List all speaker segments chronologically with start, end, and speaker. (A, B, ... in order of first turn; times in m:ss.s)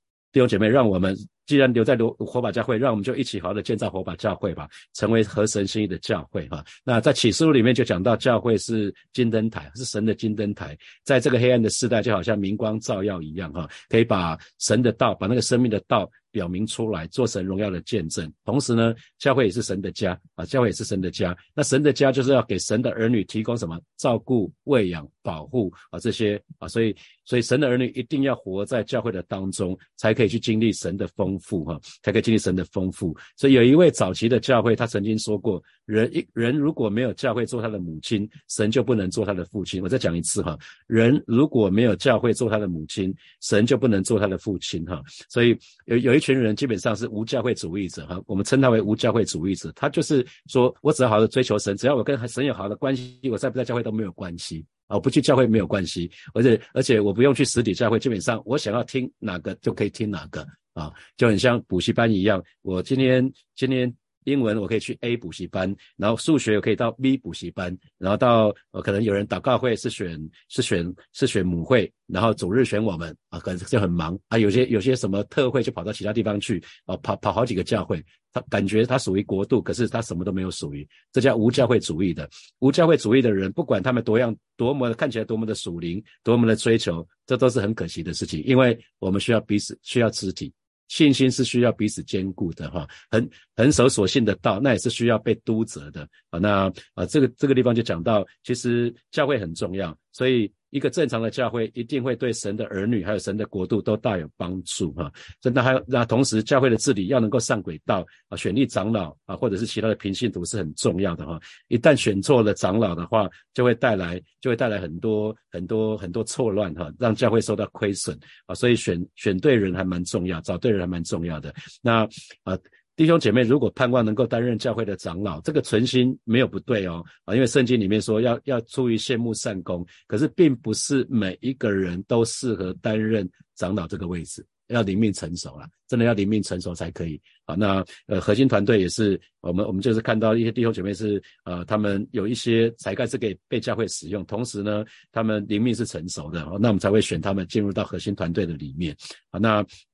0:00.3-2:29.7 A